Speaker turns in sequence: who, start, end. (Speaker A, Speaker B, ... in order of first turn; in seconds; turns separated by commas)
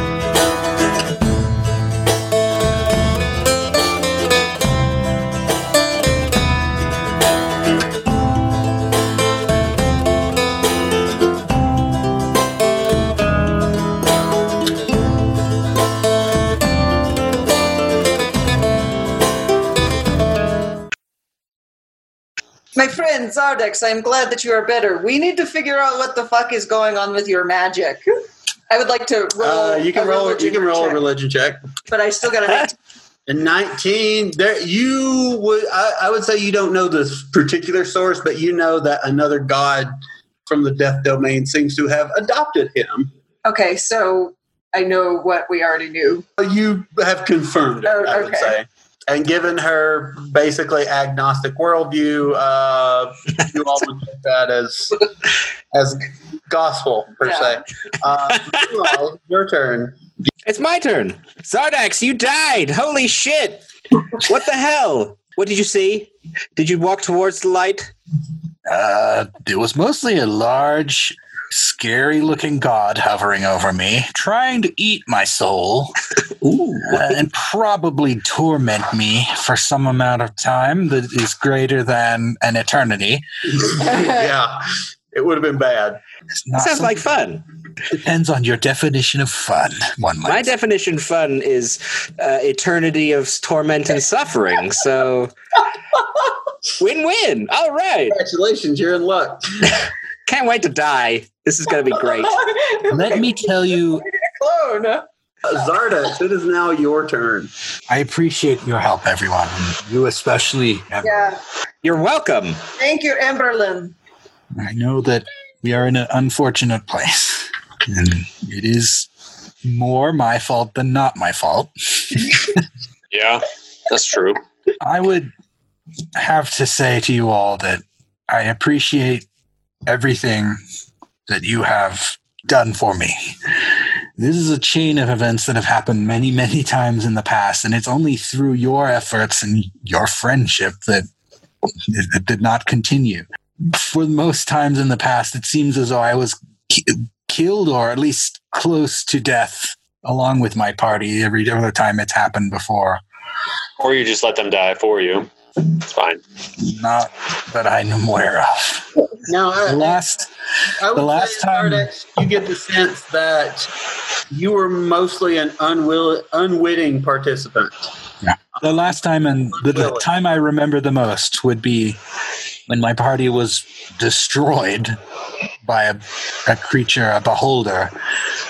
Speaker A: 22.7-28.2, Speaker A: 28.7-31.0, Speaker B: 29.4-31.6, Speaker A: 31.9-32.7, Speaker B: 33.3-39.9, Speaker B: 40.5-43.1, Speaker A: 43.4-46.2, Speaker B: 46.4-55.0, Speaker A: 47.8-48.6, Speaker B: 55.7-60.0, Speaker C: 60.5-67.9, Speaker D: 68.7-75.9, Speaker D: 76.8-83.2, Speaker A: 83.8-84.3, Speaker B: 83.8-84.6, Speaker B: 85.1-86.0, Speaker D: 86.5-87.0, Speaker C: 86.6-87.4, Speaker D: 87.9-90.5, Speaker C: 90.2-95.3, Speaker C: 96.8-98.2, Speaker B: 98.1-99.8, Speaker C: 100.2-102.4, Speaker A: 102.0-105.0, Speaker D: 102.9-104.0, Speaker B: 105.5-107.5, Speaker D: 107.9-111.1, Speaker A: 111.0-111.4, Speaker C: 111.8-112.6, Speaker A: 112.8-113.9, Speaker D: 114.6-119.1, Speaker D: 119.6-122.3, Speaker E: 123.1-124.4, Speaker D: 124.8-125.3, Speaker D: 126.2-129.2, Speaker D: 129.9-130.6, Speaker D: 131.3-133.2, Speaker D: 134.2-141.1, Speaker D: 141.9-153.0, Speaker E: 153.8-156.2, Speaker D: 156.6-158.8, Speaker B: 159.3-160.0, Speaker D: 159.7-160.3, Speaker B: 160.8-163.7, Speaker D: 160.9-161.9, Speaker B: 164.3-167.9, Speaker D: 168.2-172.0, Speaker B: 168.6-168.9, Speaker B: 169.6-170.1, Speaker D: 172.7-175.0, Speaker D: 175.7-177.9